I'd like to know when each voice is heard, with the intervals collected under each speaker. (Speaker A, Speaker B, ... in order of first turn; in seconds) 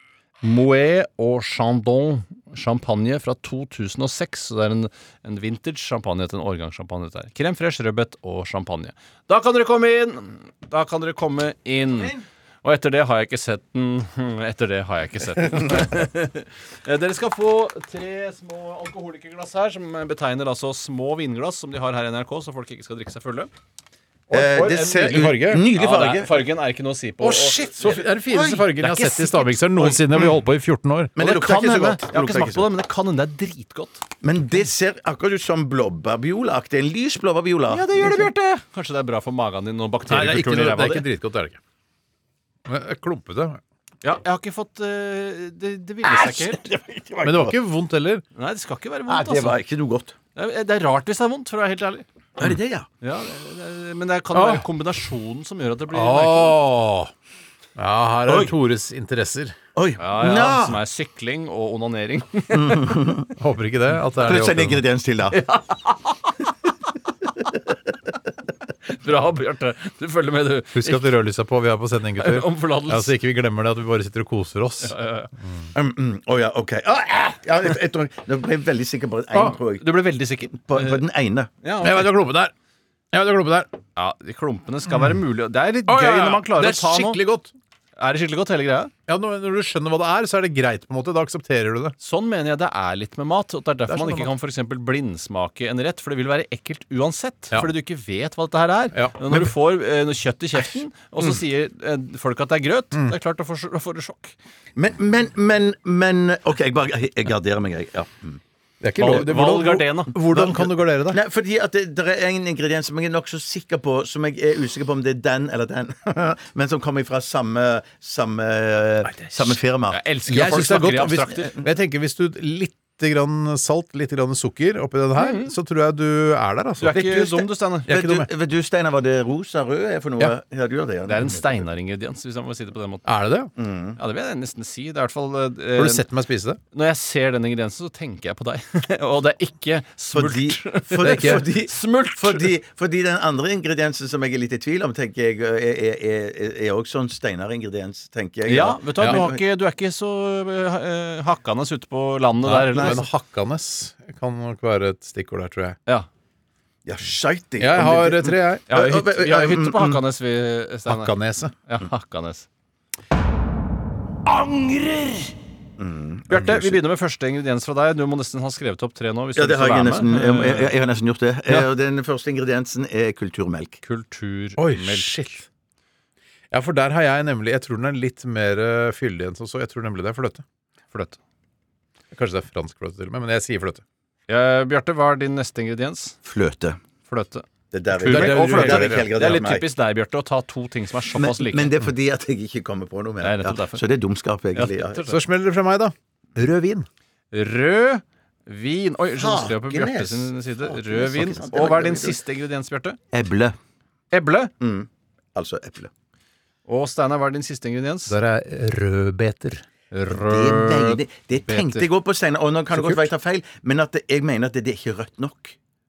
Speaker A: 0.4-23.5, 24.7-28.1, 28.8-30.0, 31.2-34.0, 37.7-41.0, 44.0-46.6, 48.4-49.6, 50.4-52.0, 53.0-56.6, 60.0-63.0, 65.3-66.5, 68.9-71.0, 72.2-73.1, 74.8-75.3, 79.8-81.0, 81.6-82.1, 84.0-87.2, 88.0-88.9, 92.0-104.3, 109.0-110.1, 119.9-121.5, 125.2-125.5, 126.8-127.9, 131.1-133.1, 134.0-136.0, 136.7-142.5, 148.5-153.0, 158.7-161.1, 161.7-162.4, 164.3-165.3, 166.3-170.7, 173.8-175.3, 180.9-181.2, 184.3-186.2, 187.1-191.7, 193.2-193.8, 194.5-195.2, 197.3-203.0, 204.1-204.5, 206.7-208.2, 209.9-211.9
Speaker B: 24.3-25.6, 27.2-31.1, 40.1-41.6, 42.6-43.6, 47.2-48.2, 54.3-54.6, 55.9-57.1, 57.8-59.6, 63.4-64.8, 70.7-75.7, 81.8-82.5, 83.1-83.7, 84.9-85.2, 85.9-87.5, 89.1-91.9, 93.9-94.3, 98.9-99.5, 108.8-111.2, 119.0-119.6, 120.3-127.2, 127.9-128.3, 133.0-133.5, 135.8-136.6, 141.0-141.4, 152.4-155.8, 157.6-158.6, 160.8-161.5, 174.6-175.4, 176.5-180.4, 182.1-183.8, 188.0-189.4, 195.1-196.8, 208.1-209.6, 212.7-213.0
Speaker C: 24.3-26.4, 28.3-28.6, 31.1-32.7, 34.2-38.3, 46.0-47.5, 49.1-50.1, 52.4-52.9, 58.3-58.5, 59.7-60.8, 62.5-63.3, 64.1-65.4, 75.7-80.0, 80.6-81.5, 104.8-108.4, 110.2-120.0, 126.9-131.7, 133.6-134.0, 140.1-149.4, 152.7-153.0, 156.8-160.0, 165.8-166.8, 169.3-173.8, 186.2-186.8, 187.7-189.7, 191.1-195.0, 199.1-202.2, 203.1-203.6, 204.6-205.9, 210.1-215.6